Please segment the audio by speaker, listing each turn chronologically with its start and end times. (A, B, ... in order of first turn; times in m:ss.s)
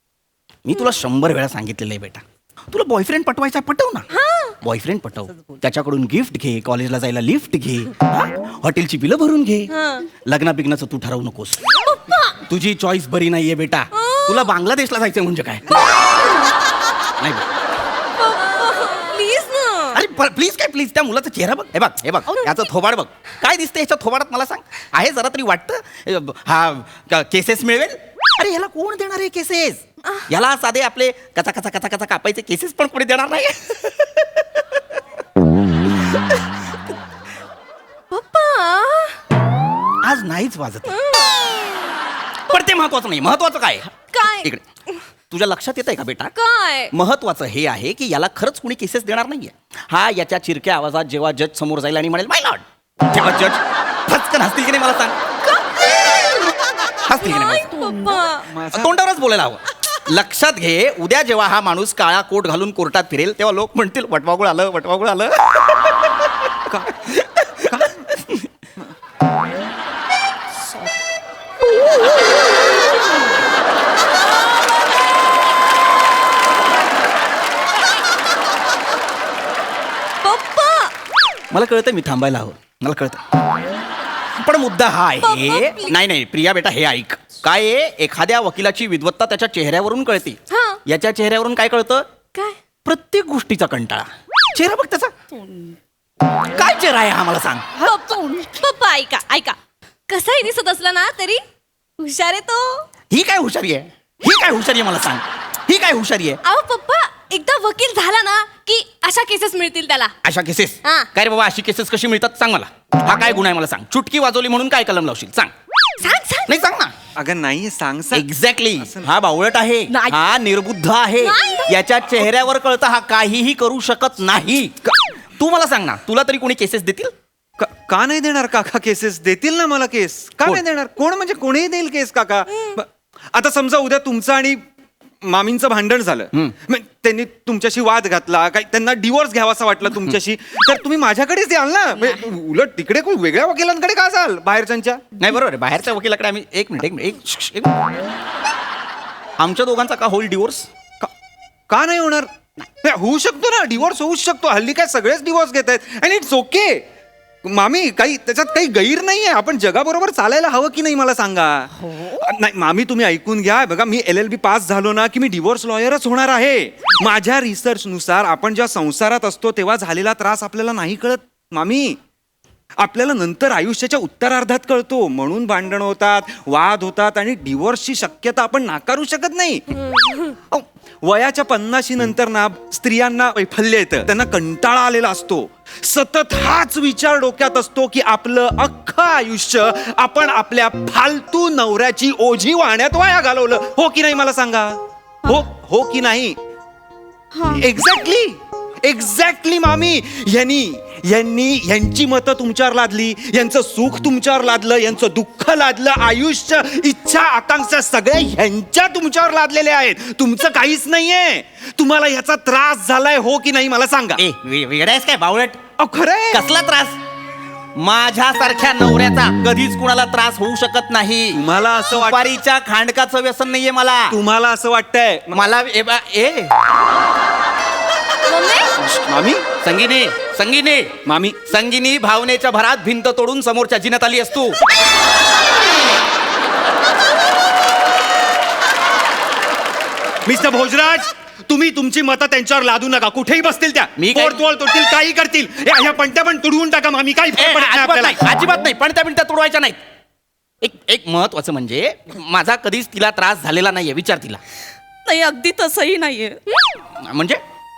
0:00.6-0:04.1 A
0:04.1-0:04.5 B
0:04.6-0:11.8 A
0:09.7-0:10.1 B
0:11.8-0:12.4 B
0:12.4-0:15.8 A
0:13.9-0:14.5 B
0:17.2-0:17.4 A
0:18.2-0:20.0 B
0:19.9-0:34.8 A
0:38.1-0:39.2 B
0:40.0-0:41.0 A
0:41.0-0:41.5 B
0:42.5-0:44.6 A
0:44.1-0:44.5 B
0:45.3-0:46.3 A
0:46.4-0:46.9 B
0:46.9-0:55.2 A
0:57.0-0:57.8 A
0:57.4-0:58.5 B
0:58.4-0:59.0 C
0:58.7-1:06.3 A
1:06.7-1:06.9 C
1:07.1-1:08.4 A
1:07.6-1:08.1 C
1:20.2-1:20.9 B
1:21.5-1:23.2 A
1:24.4-1:32.1 A
1:25.2-1:26.0 B
1:30.5-1:30.8 B
1:32.8-1:35.1 A
1:35.3-1:35.8 D
1:36.4-1:37.7 A
1:37.8-1:38.1 D
1:37.8-1:39.6 B
1:40.1-1:41.4 B
1:42.0-1:42.8 B
1:43.1-1:46.4 A
1:46.4-1:50.1 B
1:50.2-1:55.5 A
1:56.0-1:56.5 B
1:56.4-1:56.9 A
1:57.2-1:59.1 C
1:58.1-2:04.7 A
1:59.9-2:00.3 D
2:01.2-2:01.7 B
2:05.4-2:07.1 A
2:07.6-2:14.6 C
2:15.2-2:25.0 C
2:25.2-2:27.9 A
2:29.4-2:30.7 A
2:31.7-2:32.3 C
2:32.8-2:36.8 C
2:37.4-2:52.0 C
2:52.8-2:59.8 C
3:00.5-3:16.4 C
3:17.5-3:34.2 C
3:34.2-3:35.6 A
3:35.8-3:36.4 C
3:36.3-3:37.0 A
3:37.8-3:44.2 A
3:41.3-3:42.3 C
3:44.1-3:45.4 C
3:45.3-3:46.5 A
3:48.3-3:48.7 B
3:48.8-3:49.4 C
3:49.6-3:54.6 A
3:51.0-3:51.4 C
4:00.2-4:08.2 C
4:04.0-4:04.4 A
4:07.3-4:09.8 A
4:10.6-4:14.4 A
4:15.0-4:16.7 D
4:17.0-4:17.4 A